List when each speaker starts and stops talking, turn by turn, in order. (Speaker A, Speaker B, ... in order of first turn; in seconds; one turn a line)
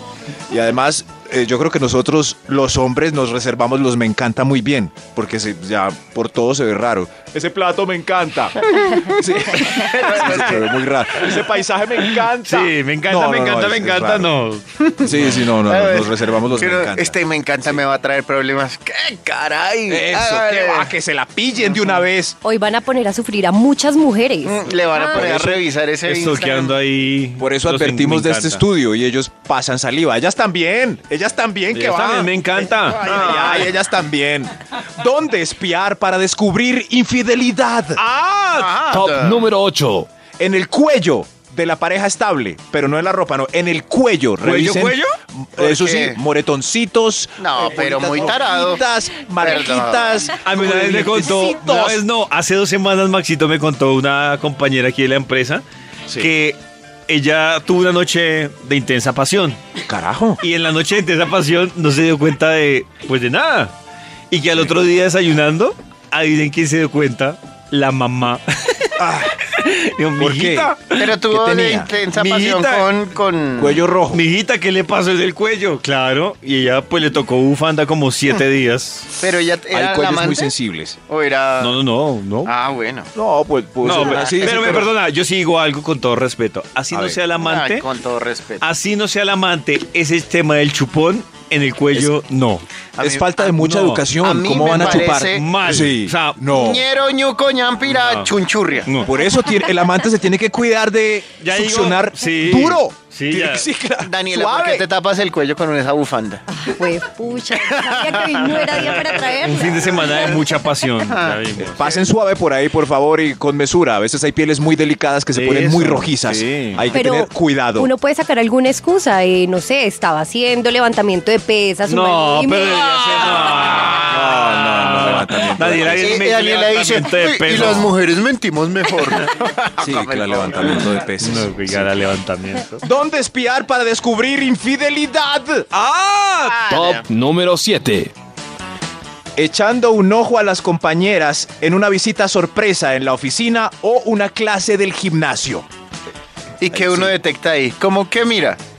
Speaker A: 0.5-8.6
Speaker B: 8.8-10.6
Speaker A: 9.1-14.3
Speaker C: 10.2-10.5
Speaker C: 12.0-15.4
Speaker B: 14.8-15.1
Speaker A: 15.0-17.2
Speaker B: 15.7-20.9
Speaker A: 19.9-22.4
Speaker D: 22.4-25.2
Speaker B: 24.4-26.8
Speaker C: 25.1-28.6
Speaker A: 27.4-38.0
Speaker C: 31.7-33.7
Speaker B: 33.0-33.7
Speaker C: 38.0-38.8
Speaker B: 38.5-39.5
Speaker E: 38.9-40.1
Speaker A: 40.4-52.0
Speaker C: 44.4-45.1
Speaker B: 45.6-46.2
Speaker B: 47.4-48.8
Speaker B: 49.4-50.3
Speaker C: 50.4-59.6
Speaker A: 59.9-60.4
Speaker C: 60.4-63.7
Speaker C: 64.3-71.2
Speaker A: 69.0-69.4
Speaker A: 70.2-71.9
Speaker B: 71.0-73.8
Speaker C: 72.1-72.9
Speaker A: 73.6-74.2
Speaker C: 74.1-79.1
Speaker B: 79.2-80.5
Speaker A: 79.7-81.0
Speaker B: 81.1-81.8
Speaker C: 81.6-82.5
Speaker B: 82.5-83.1
Speaker A: 83.2-84.9
Speaker C: 83.8-87.9
Speaker B: 83.9-84.9
Speaker A: 86.9-87.2
Speaker B: 87.4-88.7
Speaker C: 88.6-92.6
Speaker B: 93.0-93.5
Speaker A: 93.0-96.9
Speaker C: 93.5-94.1
Speaker B: 94.2-95.5
Speaker C: 94.7-96.4
Speaker B: 96.5-98.9
Speaker C: 97.8-98.3
Speaker A: 99.0-104.9
Speaker C: 101.4-103.7
Speaker B: 104.0-106.5
Speaker D: 106.5-110.3
Speaker B: 107.6-108.6
Speaker C: 109.2-112.0
Speaker B: 111.0-111.4
Speaker A: 111.6-117.9
Speaker C: 115.3-116.8
Speaker D: 116.9-123.0
Speaker C: 121.9-128.0
Speaker B: 122.6-124.0
Speaker A: 123.9-126.3
Speaker B: 126.0-130.9
Speaker A: 127.5-127.8
Speaker A: 129.8-132.1
Speaker C: 131.2-132.8
Speaker A: 132.8-135.7
Speaker C: 135.7-136.6
Speaker B: 136.4-137.1
Speaker E: 136.7-138.1
Speaker A: 139.4-145.7
Speaker B: 146.6-148.6
Speaker A: 146.7-147.2